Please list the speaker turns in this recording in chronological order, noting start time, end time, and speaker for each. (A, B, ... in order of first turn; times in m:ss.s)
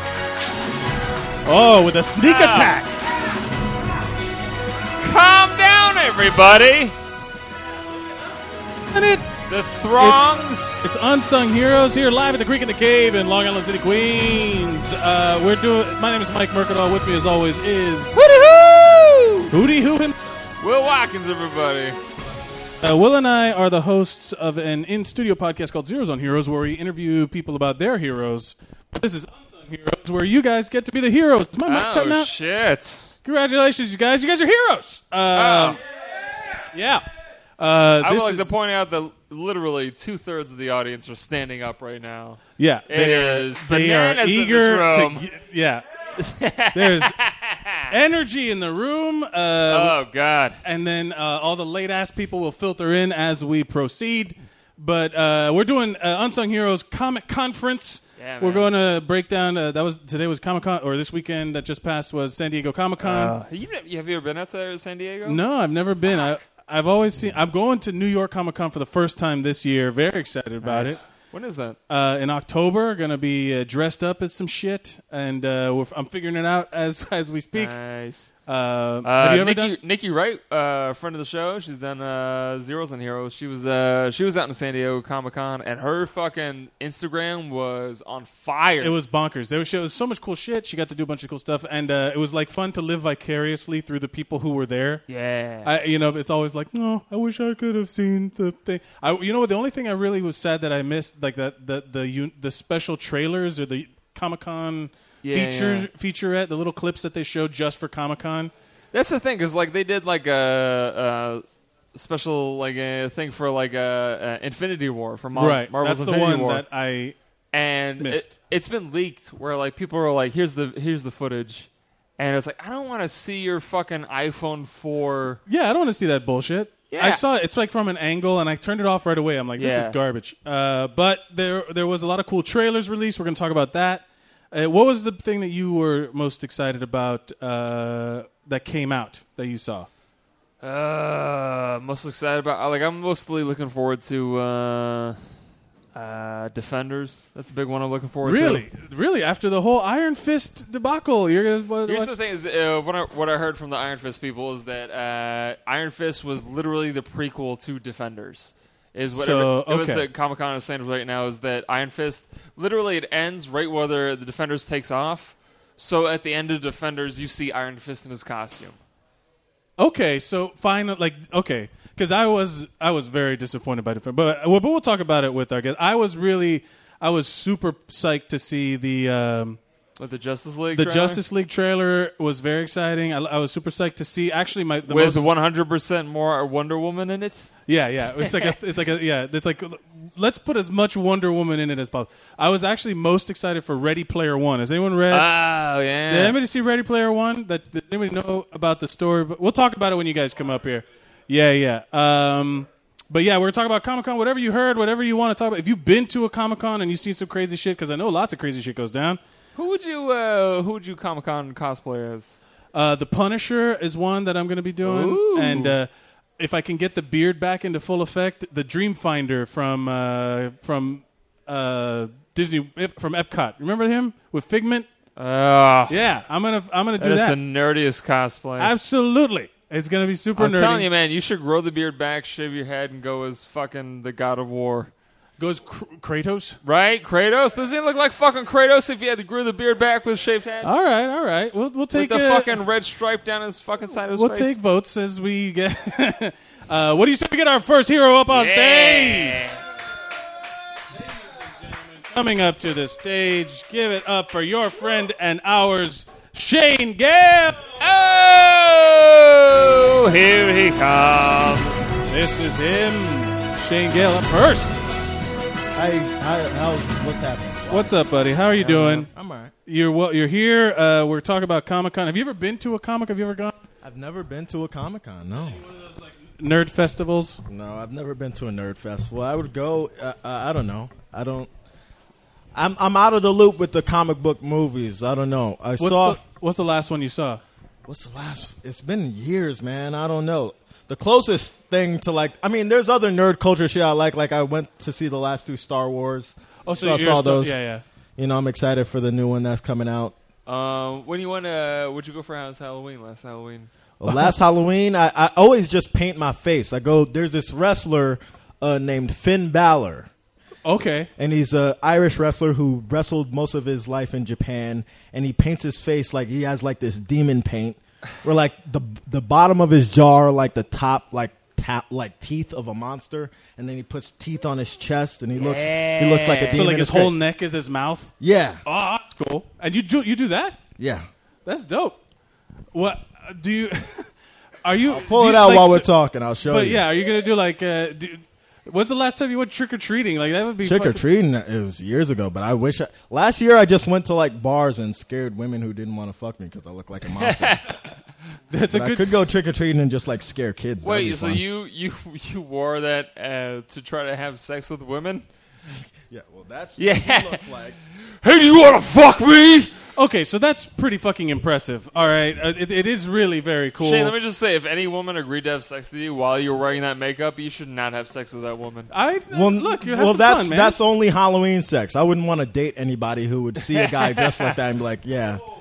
0:01.4-0:02.9 A
0:02.2-0:02.8 B
0:05.0-0:07.0 B
0:08.9-0:09.3 A
0:09.5-0:10.9 B
0:10.0-0:18.2 A
0:18.1-0:19.5 B
0:19.5-0:20.2 A
0:20.6-0:22.0 B
0:22.8-0:32.3 A
0:31.7-0:33.2 B
0:33.2-0:35.8 A
0:35.3-0:35.8 B
0:36.7-0:37.0 A
0:37.6-0:38.5 A
0:38.0-0:45.2 B
0:42.6-0:45.8 A
0:46.2-0:47.9 B
0:46.7-0:47.1 A
0:47.9-0:50.0 A
0:49.7-0:50.6 B
0:50.6-1:03.4 A
0:58.2-0:58.7 B
1:03.0-1:05.4 B
1:05.2-1:11.0 A
1:10.6-1:11.8 B
1:11.9-1:17.8 A
1:17.6-1:18.3 B
1:18.5-1:19.8 A
1:19.0-1:28.9 B
1:28.8-1:35.0 A
1:35.1-1:35.7 B
1:35.6-1:48.5 A
1:45.2-1:45.9 B
1:48.9-1:56.6 B
1:55.4-1:57.2 A
1:57.5-2:05.4 B
1:58.0-1:58.3 A
2:05.5-2:19.9 A
2:06.9-2:07.2 B
2:09.6-2:10.0 B
2:20.6-2:25.2 B
2:25.9-2:28.7 B
2:28.2-2:32.2 A
2:31.9-2:48.8 B
2:39.1-2:40.1 A
2:49.8-2:59.6 A
3:00.0-3:01.2 B
3:00.7-3:05.3 A
3:04.9-3:07.5 B
3:07.7-3:15.3 A
3:08.2-3:08.6 B
3:15.1-3:16.4 B
3:16.1-3:29.2 A
3:29.6-3:32.4 B
3:32.7-3:44.9 A
3:34.8-3:35.8 B
3:45.2-3:46.1 B
3:45.9-3:47.4 A
3:47.0-3:48.7 B
3:48.6-3:50.9 A
3:50.4-3:54.9 B
3:55.4-3:56.6 A
3:56.6-4:00.7 B
4:00.6-4:02.6 A
4:01.9-4:04.6 B
4:04.1-4:09.4 A
4:08.3-4:09.6 B
4:11.0-4:17.6 A
4:17.8-4:22.1 B
4:22.1-4:24.9 A
4:25.8-4:27.9 C
4:27.7-4:29.1 A
4:28.6-4:29.0 B
4:28.7-4:29.5 C
4:29.7-4:33.7 A
4:33.8-4:35.6 C
4:35.5-4:37.4 A
4:37.5-4:41.5 C
4:42.6-4:46.2 C
4:45.8-4:47.4 A
4:47.8-4:57.6 C
4:56.6-4:57.8 A
4:58.2-5:00.2 C
5:00.5-5:03.7 B
5:04.0-5:10.1 C
5:10.6-5:11.1 A
5:11.2-5:27.2 C
5:25.4-5:26.6 B
5:26.5-5:28.1 A
5:28.2-5:28.6 C
5:28.6-5:30.6 A
5:30.8-5:31.1 C
5:31.4-5:32.0 A
5:32.7-5:34.1 A
5:34.6-5:35.9 A
5:34.9-5:36.8 C
5:36.5-5:41.0 A
5:40.6-5:47.6 C
5:47.2-5:47.8 B
5:48.5-5:49.1 A
5:48.7-5:51.4 C
5:50.8-5:55.3 B
5:56.1-5:57.8 C
5:56.8-5:57.4 B
5:58.2-5:59.9 B
6:00.0-6:04.2 A
6:03.8-6:08.9 B
6:08.9-6:10.8 A
6:09.3-6:15.4 C
6:13.7-6:14.6 B